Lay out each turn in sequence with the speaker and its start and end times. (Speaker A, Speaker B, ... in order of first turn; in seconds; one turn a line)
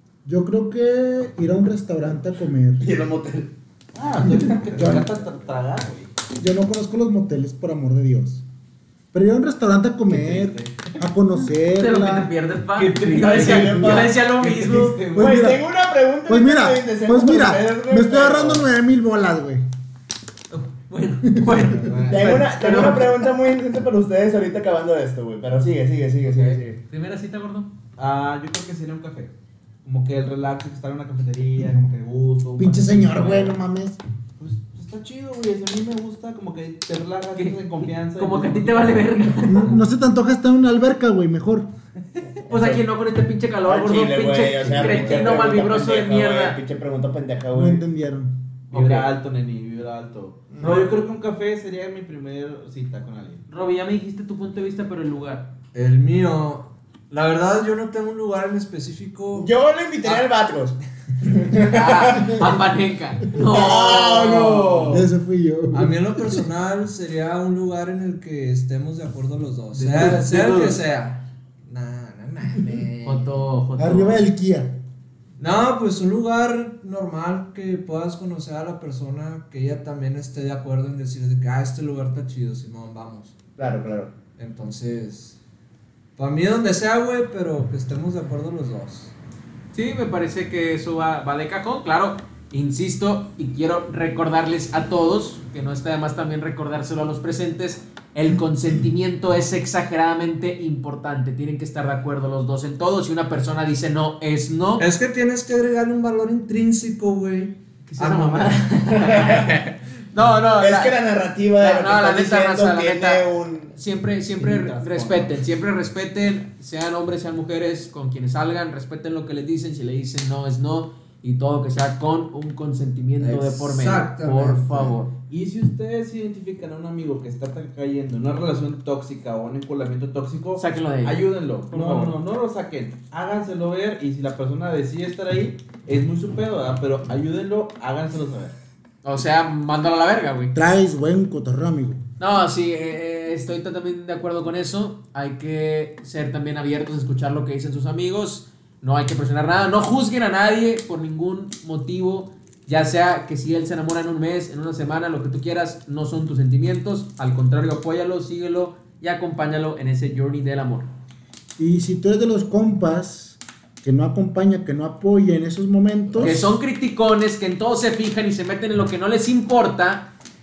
Speaker A: 0.2-2.8
Speaker B: 2.8-3.5
Speaker C: 3.9-6.1
Speaker A: 4.7-5.1
Speaker A: 6.4-8.4
Speaker A: 9.1-12.3
Speaker C: 10.1-10.9
Speaker D: 11.8-15.0
Speaker C: 12.8-15.3
Speaker B: 13.2-14.1
Speaker A: 13.4-14.1
Speaker A: 15.1-15.6
Speaker B: 15.1-18.6
Speaker A: 16.2-19.6
Speaker D: 20.5-23.2
Speaker A: 21.3-21.6
Speaker B: 22.1-26.8
Speaker D: 26.9-27.7
Speaker C: 28.0-29.3
Speaker C: 29.8-33.5
Speaker A: 32.6-34.0
Speaker C: 34.4-39.4
Speaker D: 38.1-39.8
Speaker A: 39.5-41.7
Speaker B: 42.5-42.8
Speaker D: 42.5-46.6
Speaker B: 43.6-47.8
Speaker C: 44.7-45.3
Speaker A: 47.5-48.3
Speaker D: 48.7-49.1
Speaker C: 48.7-53.4
Speaker B: 50.5-50.9
Speaker D: 53.5-55.5
Speaker E: 55.7-59.5
Speaker B: 59.3-62.5
Speaker D: 61.5-65.0
Speaker B: 63.4-65.0
Speaker A: 64.9-66.4
Speaker E: 65.7-73.4
Speaker D: 69.7-70.8
Speaker D: 73.0-74.2
Speaker A: 73.8-74.8
Speaker E: 75.4-83.3
Speaker B: 83.6-84.1
Speaker E: 84.4-85.4
Speaker E: 86.2-89.1
Speaker D: 89.7-104.8
Speaker E: 104.8-109.7
Speaker D: 107.9-109.6
Speaker D: 110.1-111.0
Speaker B: 110.6-113.7
Speaker D: 111.6-113.2
Speaker D: 113.7-125.1
Speaker C: 114.3-115.4
Speaker E: 123.2-125.0
Speaker C: 125.3-138.5
Speaker D: 130.6-132.1
Speaker D: 139.0-140.5
Speaker A: 140.5-142.0
Speaker D: 142.2-160.9
Speaker A: 161.6-166.4
Speaker D: 166.2-170.1